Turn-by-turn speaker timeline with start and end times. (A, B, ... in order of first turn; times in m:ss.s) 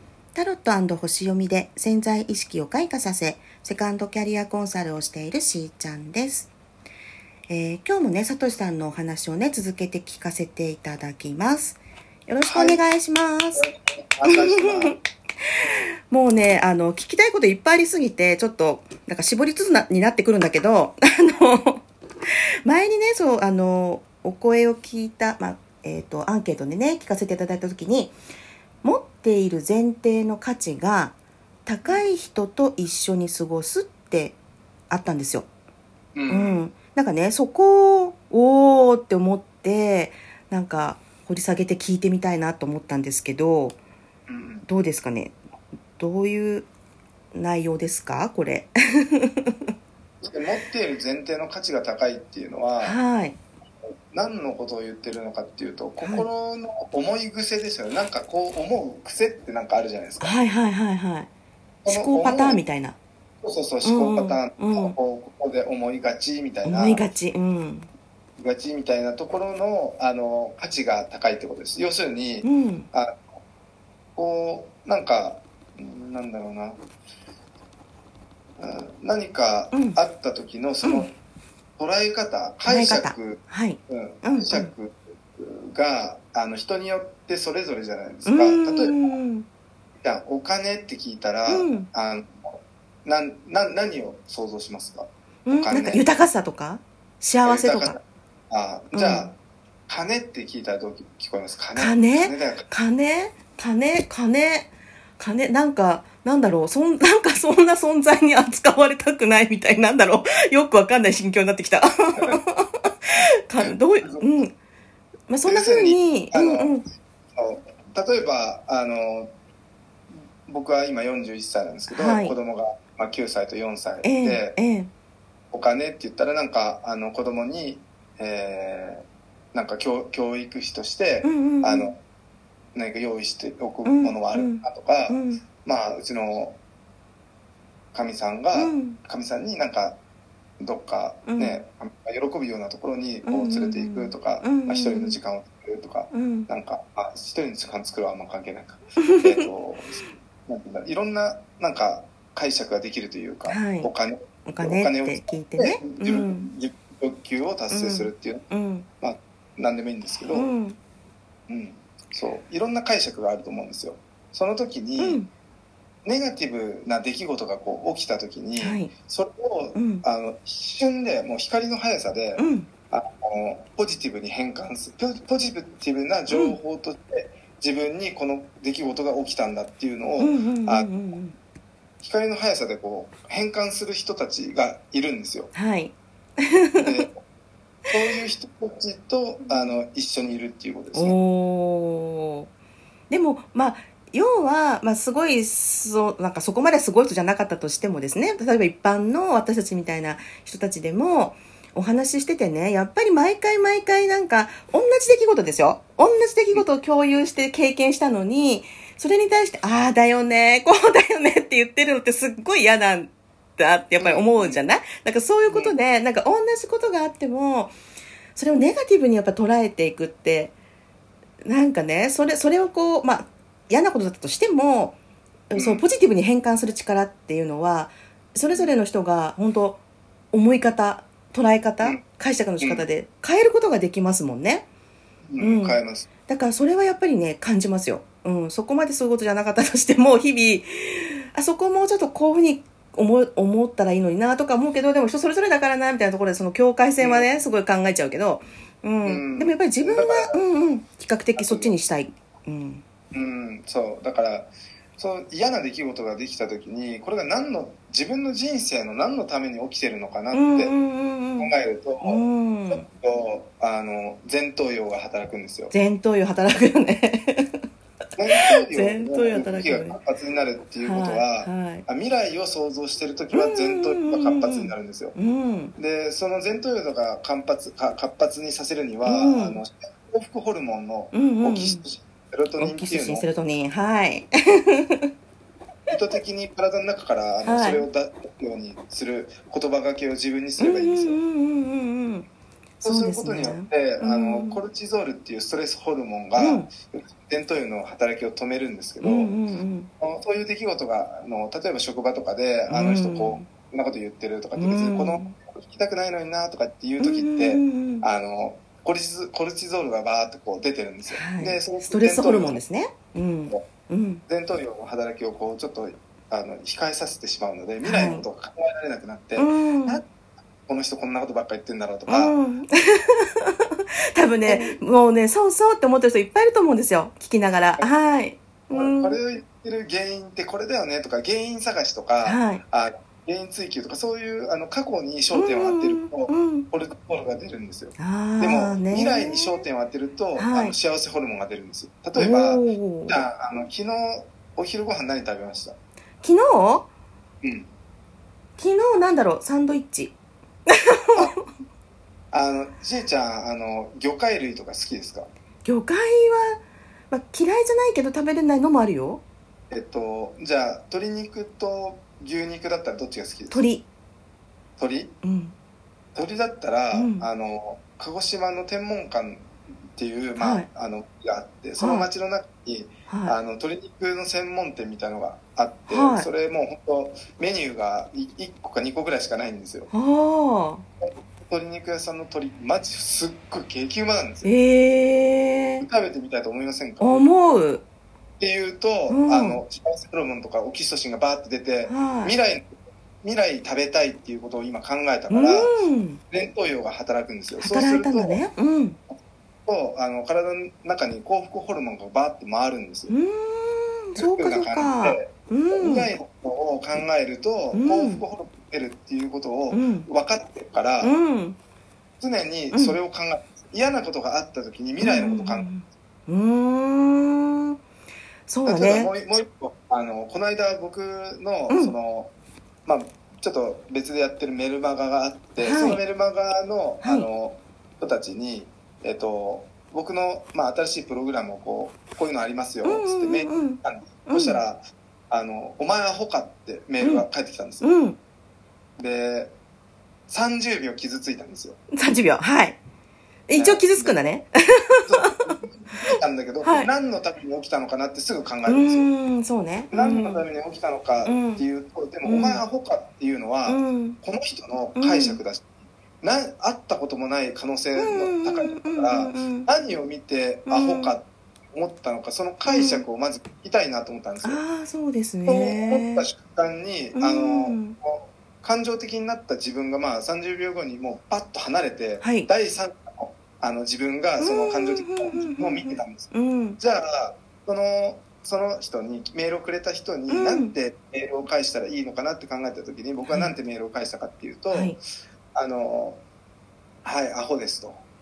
0:00.4-0:06.5 A
0:07.5-0:13.6 A
0:12.5-0:12.8 B
0:13.6-0:15.0 B
0:14.3-0:15.0 A
0:16.1-0:21.8 A
0:22.7-0:28.2 A
0:28.8-0:34.4 A
0:34.9-0:35.5 A
0:36.2-0:36.6 B
0:36.3-0:43.8 A
0:44.3-0:44.7 B
0:44.7-0:45.4 A
0:46.0-0:46.7 A
0:47.3-0:49.7 A
0:50.2-0:53.0 B
0:52.8-0:53.4 A
0:54.1-1:00.4 B
0:56.0-0:56.2 A
1:00.2-1:01.3 A
1:01.8-1:02.6 B
1:01.9-1:03.0 A
1:03.4-1:07.0 B
1:03.8-1:04.9 A
1:06.6-1:07.9 A
1:08.4-1:13.2 B
1:12.4-1:12.9 A
1:14.2-1:16.8 B
1:18.6-1:21.1 B
1:19.7-1:20.0 A
1:21.8-1:29.0 B
1:22.7-1:24.7 A
1:28.2-1:29.5 A
1:30.0-1:36.2 B
1:31.5-1:31.9 A
1:35.4-1:38.0 A
1:37.4-1:39.4 B
1:38.9-1:39.3 A
1:39.9-1:42.7 B
1:41.7-1:54.6 A
1:53.6-1:54.4 B
1:55.3-1:56.8 A
1:55.4-1:56.7 B
1:57.3-1:59.3 B
2:00.4-2:04.6 B
2:01.9-2:02.3 A
2:04.0-2:04.9 A
2:05.5-2:12.0 B
2:11.2-2:11.9 A
2:12.8-2:16.6 B
2:13.8-2:15.4 A
2:17.9-2:20.0 B
2:18.5-2:19.0 A
2:20.6-2:38.4 B
2:21.3-2:21.6 A
2:23.2-2:25.2 A
2:26.1-2:26.5 A
2:29.0-2:29.5 A
2:33.5-2:33.9 A
2:34.5-2:36.5 A
2:37.7-2:38.9 A
2:39.0-2:40.5 B
2:40.3-2:40.8 A
2:41.5-2:45.2 B
2:45.0-2:45.3 A
2:46.0-3:00.9 B
2:48.6-2:48.9 A
2:49.8-2:50.0 A
2:52.4-2:52.7 A
2:56.3-2:56.6 A
3:00.2-3:01.4 A
3:02.0-3:05.5 B
3:05.5-3:07.1 A
3:06.8-3:07.2 B
3:07.9-3:11.2 B
3:09.4-3:09.8 A
3:10.9-3:12.5 A
3:13.1-3:37.8 A
3:34.0-3:34.6 B
3:35.5-3:35.8 B
3:38.4-3:40.5 A
3:41.4-3:45.0 A
3:45.5-3:49.8 A
3:45.6-3:45.9 B
3:50.3-3:54.7 A
3:55.3-3:56.1 B
3:55.4-4:12.8 A
4:07.0-4:07.3 B
4:09.0-4:10.4 B
4:11.4-4:11.8 B
4:13.1-4:20.8 B
4:20.3-4:22.9 A
4:21.4-4:25.7 B
4:25.7-4:27.6 A
4:28.2-4:35.2 B
4:28.4-4:30.0 A
4:30.8-4:31.8 A
4:33.3-4:35.7 A
4:35.8-4:43.3 B
4:39.0-4:39.6 A
4:41.1-4:41.8 A
4:42.6-4:45.1 A
4:45.9-4:51.2 B
4:47.4-4:47.8 A
4:50.6-4:52.2 A
4:52.8-4:54.6 A
4:52.8-4:59.4 B
4:56.4-4:56.7 A
4:59.0-4:59.9 A
5:00.0-5:12.6 B
5:02.7-5:03.5 A
5:04.5-5:05.4 A
5:07.0-5:08.1 A
5:11.1-5:14.2 A
5:14.3-5:20.1 B
5:17.8-5:18.2 A
5:19.4-5:20.0 A
5:20.6-5:22.4 B
5:22.1-5:29.2 A
5:24.4-5:24.8 B
5:28.7-5:45.8 B
5:32.2-5:32.6 A
5:35.3-5:36.7 A
5:38.0-5:39.6 A
5:40.4-5:40.8 A
5:42.1-5:43.2 A
5:46.2-5:46.9 A
5:47.4-5:47.7 B
5:48.6-5:50.1 A
5:50.7-5:51.4 A
5:52.3-5:55.3 B
5:55.6-5:59.2 A
5:59.7-6:03.7 B
6:03.5-6:03.9 A
6:04.8-6:05.1 B
6:05.2-6:05.5 A
6:06.1-6:19.9 B
6:06.9-6:07.3 A
6:10.4-6:10.7 A
6:11.8-6:12.1 A
6:13.1-6:13.4 A
6:15.9-6:16.3 A
6:19.9-6:20.8 A
6:21.0-6:24.5 B
6:24.4-6:25.9 A
6:25.8-6:27.3 B
6:27.0-6:27.8 A
6:28.4-6:35.8 B
6:29.1-6:29.6 A
6:31.9-6:32.4 A
6:35.3-6:36.2 A
6:36.3-6:38.4 B
6:37.6-6:39.0 A
6:39.7-6:43.1 B
6:43.1-6:46.1 A
6:44.2-6:51.1 B
6:47.7-6:48.2 A
6:49.7-6:50.1 A
6:51.0-6:51.6 A
6:52.2-6:55.8 B
6:52.7-6:53.0 A
6:55.0-6:57.8 A
6:58.5-6:59.1 A
6:58.6-7:02.3 B
7:01.7-7:01.9 A
7:02.9-7:18.0 B
7:05.6-7:06.0 A
7:07.0-7:07.3 A
7:12.8-7:14.6 A
7:17.0-7:17.3 A
7:17.8-7:18.2 A
7:19.0-7:19.6 B
7:20.3-7:21.8 B
7:21.9-7:22.8 A
7:23.5-7:25.3 A
7:23.6-7:24.4 B
7:25.1-7:29.1 B
7:26.0-7:26.9 A
7:28.7-7:30.4 A
7:29.9-7:44.6 B
7:31.2-7:31.6 A
7:32.2-7:32.6 A
7:33.7-7:34.2 A
7:35.0-7:35.4 A
7:38.0-7:39.7 A
7:40.7-7:41.1 A
7:42.7-7:43.0 A
7:44.4-7:46.3 A
7:45.4-8:05.0 B
7:47.1-7:48.0 A
7:52.2-7:52.5 A
7:54.4-7:56.8 A
8:00.3-8:00.8 A
8:03.2-8:03.5 A
8:04.7-8:05.0 A
8:05.6-8:06.2 B
8:07.0-8:08.0 B